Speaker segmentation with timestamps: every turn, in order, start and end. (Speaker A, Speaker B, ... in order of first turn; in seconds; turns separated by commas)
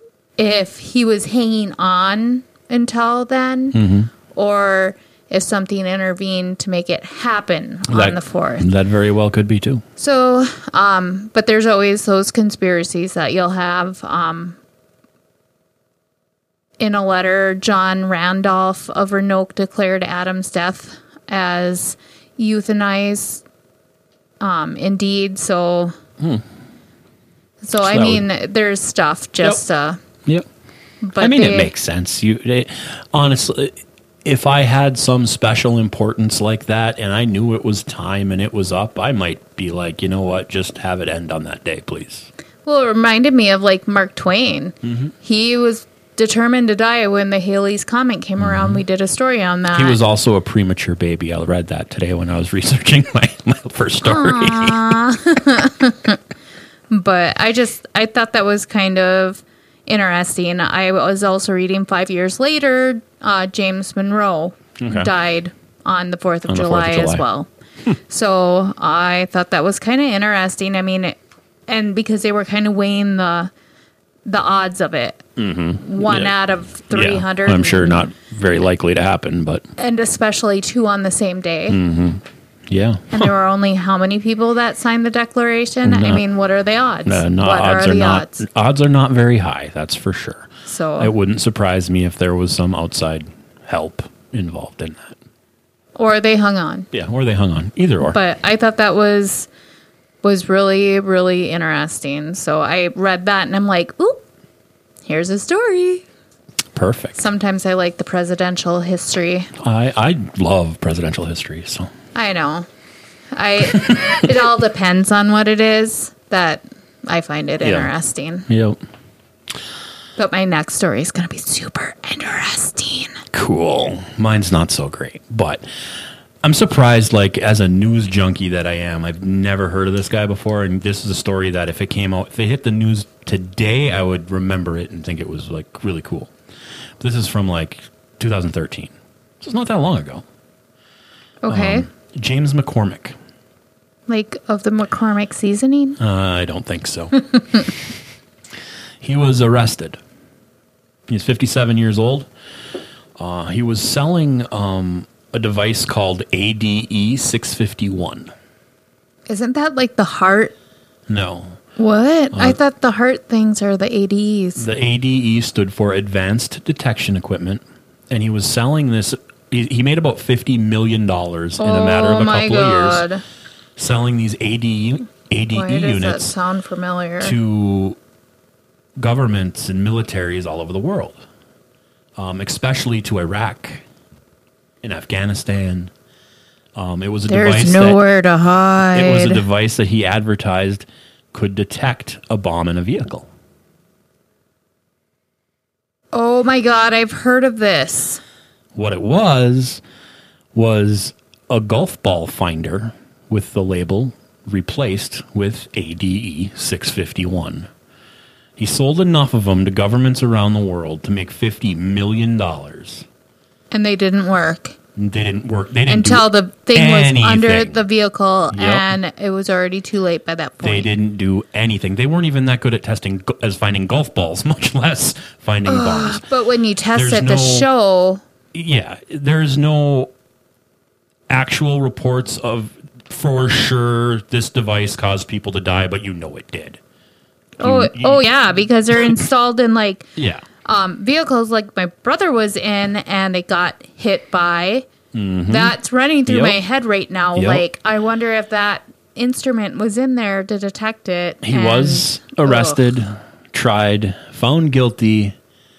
Speaker A: 0.4-8.7, Speaker B: 3.7-4.1, Speaker B: 7.9-9.8, Speaker A: 10.0-14.6, Speaker A: 16.8-23.4, Speaker A: 24.4-25.9, Speaker B: 26.2-26.4, Speaker A: 27.6-30.0, Speaker B: 27.8-28.2, Speaker A: 31.0-31.7, Speaker B: 31.2-42.3, Speaker A: 42.6-50.0, Speaker B: 44.8-45.1, Speaker B: 48.4-48.8, Speaker B: 49.7-55.0, Speaker A: 54.0-56.2, Speaker A: 56.9-67.5, Speaker B: 64.8-65.1, Speaker B: 66.5-67.2, Speaker A: 68.1-71.2, Speaker A: 71.7-73.5, Speaker A: 74.2-75.3, Speaker B: 75.3-76.3, Speaker A: 75.8-78.0, Speaker B: 76.9-79.6, Speaker A: 79.8-81.8, Speaker B: 81.7-83.3, Speaker A: 83.1-88.4, Speaker B: 85.8-86.2, Speaker B: 87.0-95.2, Speaker A: 90.7-91.1, Speaker A: 95.9-96.9, Speaker B: 96.9-98.2, Speaker A: 98.1-99.5, Speaker A: 100.2-104.2, Speaker A: 105.0-106.0, Speaker B: 106.7-107.2, Speaker A: 107.1-109.5, Speaker B: 109.6-111.9, Speaker A: 112.1-112.7, Speaker A: 113.3-118.5, Speaker B: 113.7-114.2, Speaker B: 117.6-117.9, Speaker B: 118.5-118.8, Speaker A: 120.2-123.2, Speaker B: 123.3-125.6, Speaker B: 126.4-136.3, Speaker B: 137.0-140.2, Speaker A: 141.4-141.9, Speaker B: 141.5-143.1, Speaker A: 144.1-146.0, Speaker B: 146.0-147.7, Speaker B: 149.0-150.0, Speaker B: 151.1-152.3, Speaker B: 153.2-158.3, Speaker A: 159.3-160.5, Speaker B: 161.1-161.6, Speaker A: 161.8-164.7, Speaker B: 162.3-162.6, Speaker B: 164.6-173.1, Speaker A: 171.6-173.2, Speaker B: 173.8-176.3, Speaker A: 175.5-177.3, Speaker B: 177.2-178.0, Speaker B: 179.0-181.2, Speaker B: 182.2-183.8, Speaker B: 184.8-185.9, Speaker B: 186.7-188.0, Speaker A: 187.3-189.4, Speaker B: 188.9-193.3, Speaker A: 196.1-198.2, Speaker B: 198.7-199.8, Speaker B: 200.5-207.7, Speaker B: 208.6-213.1, Speaker A: 213.7-214.8, Speaker B: 214.9-217.8, Speaker A: 215.9-220.9, Speaker B: 218.5-218.9, Speaker B: 220.6-226.2, Speaker A: 225.7-228.2, Speaker B: 226.9-227.7, Speaker B: 228.5-230.1, Speaker B: 231.3-236.8, Speaker A: 237.6-240.1, Speaker B: 237.6-238.2, Speaker B: 238.9-239.2, Speaker B: 240.2-240.4, Speaker A: 240.6-244.9, Speaker B: 245.1-245.7, Speaker A: 245.5-252.8, Speaker B: 246.3-246.6, Speaker B: 247.3-247.6, Speaker B: 251.4-255.3